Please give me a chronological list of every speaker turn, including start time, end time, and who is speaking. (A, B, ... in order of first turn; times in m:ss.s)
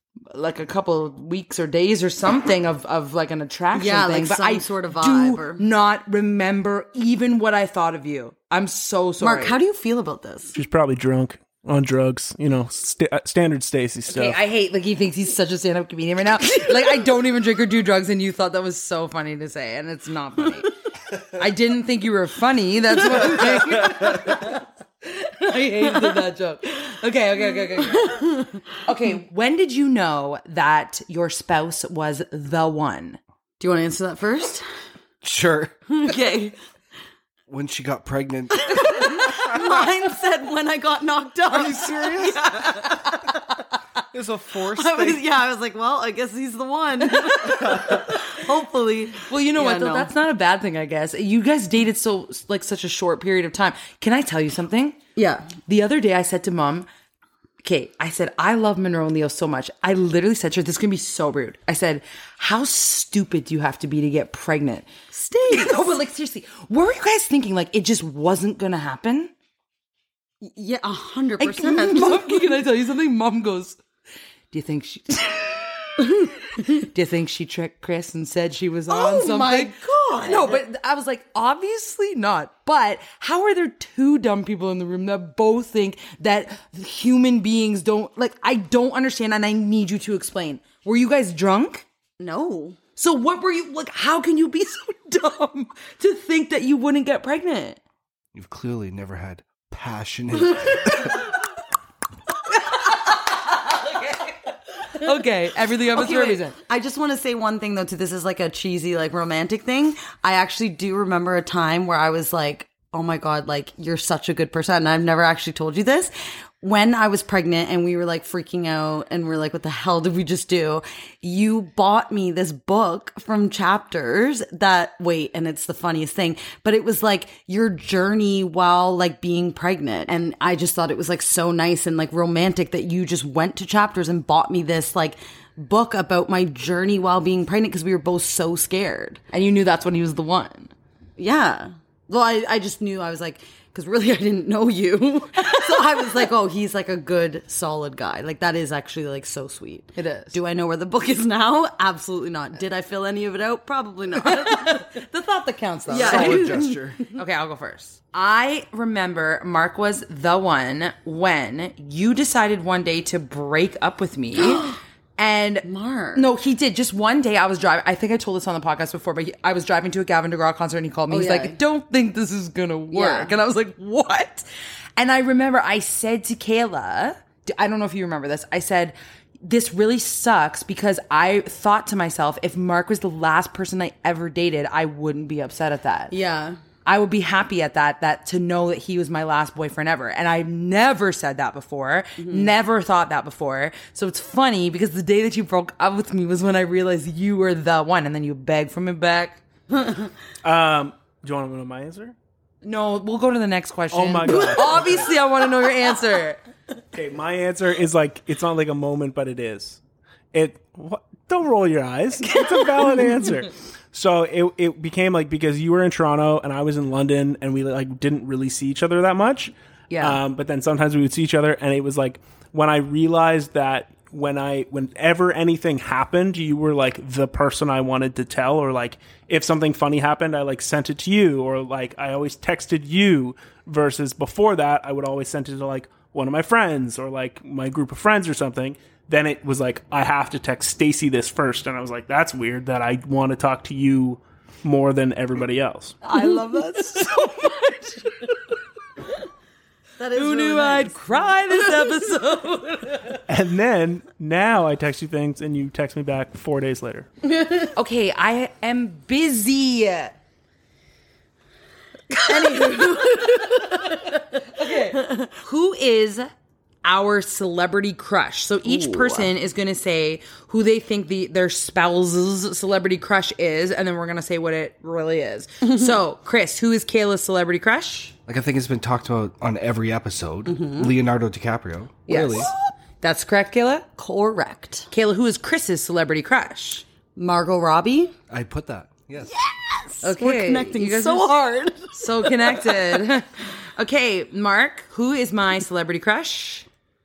0:00.3-0:09.6 A
0:03.7-0:05.6 B
0:09.2-0:10.6 B
0:10.5-0:14.4 C
0:14.1-0:20.7 A
0:21.3-0:33.2 A
0:27.9-0:28.6 B
0:33.6-0:34.6 B
0:35.2-0:35.7 D
0:35.9-0:36.6 B
0:37.5-0:39.7 D
0:38.5-0:43.4 B
0:41.5-0:42.9 D
0:44.1-0:45.2 D
0:44.7-0:50.1 B
0:47.5-0:48.1 D
0:49.2-0:55.0 A
0:55.2-0:55.5 B
0:55.6-0:56.9 A
0:57.6-1:09.3 A
1:05.1-1:05.9 B
1:10.4-1:12.6 B
1:11.4-1:13.8 A
1:14.5-1:31.8 A
1:18.9-1:20.6 B
1:32.2-1:32.8 B
1:33.0-1:37.8 A
1:38.3-1:41.2 D
1:42.6-1:44.4 A
1:44.9-1:46.6 A
1:45.9-2:19.2 B
2:19.3-2:20.7 A
2:21.2-2:34.8 B
2:30.0-2:30.4 A
2:34.2-2:54.4 A
2:35.9-2:36.9 B
2:35.9-2:37.0 D
2:44.3-2:44.8 B
2:45.6-2:46.3 B
2:51.1-2:51.6 B
2:52.9-2:53.3 B
2:55.0-3:06.1 A
3:06.1-3:06.6 B
3:06.8-3:19.4 A
3:12.2-3:12.5 B
3:19.7-3:20.1 B
3:20.4-3:22.1 C
3:22.6-3:26.4 A
3:23.9-3:25.1 C
3:26.9-3:29.8 C
3:30.3-4:06.0 C
3:39.9-3:40.2 A
4:06.0-4:08.5 A
4:10.0-4:12.0 B
4:10.1-4:13.2 A
4:13.3-4:17.1 C
4:17.7-4:20.2 A
4:22.1-4:26.3 A
4:22.2-4:24.2 B
4:24.8-4:25.3 B
4:26.8-4:38.1 A
4:28.6-4:29.3 B
4:35.6-4:36.0 B
4:38.3-4:42.5 D
4:40.4-4:40.9 B
4:42.1-4:43.9 A
4:44.0-4:44.9 B
4:44.9-4:46.8 A
4:47.2-4:48.1 B
4:48.3-4:49.3 D
4:49.2-4:53.1 B
4:50.0-4:51.3 A
4:52.0-4:56.6 A